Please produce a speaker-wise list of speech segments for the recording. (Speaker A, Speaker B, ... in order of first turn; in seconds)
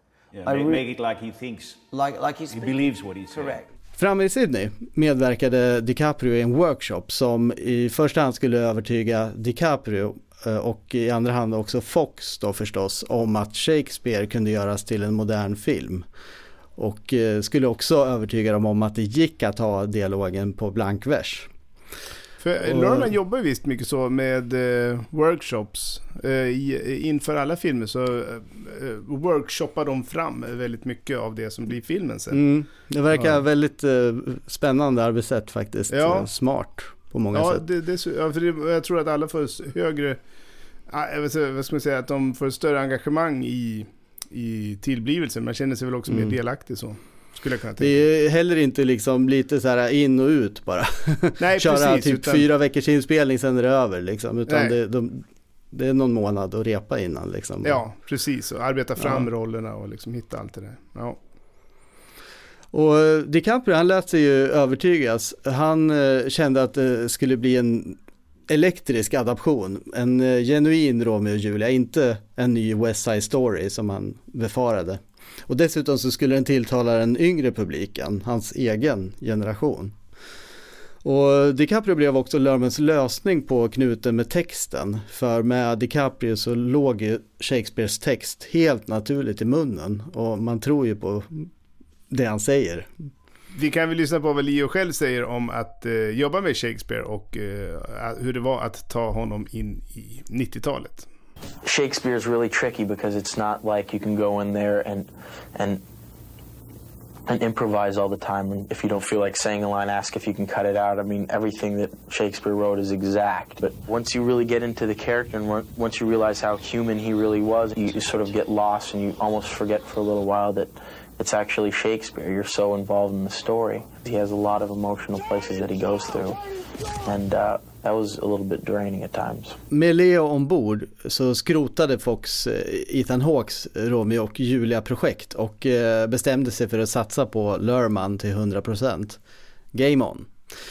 Speaker A: 0.3-1.8, 2.5-3.6
Speaker B: 0.5-0.9, 1.9-3.7
Speaker C: 4.0-16.1, 16.8-21.5, 22.7-23.1, 32.3-37.6, 46.1-46.3, 47.8-57.8, 59.0-59.3, 62.7-80.0, 81.0-91.5, 92.1-92.9, 129.7-139.2, 139.7-140.3
Speaker D: 22.4-32.4, 35.9-36.3, 37.3-40.2, 40.9-48.0, 51.4-52.5, 54.5-54.8, 57.6-61.2, 93.5-101.1
Speaker E: 101.6-105.8, 107.3-126.4, 127.0-129.6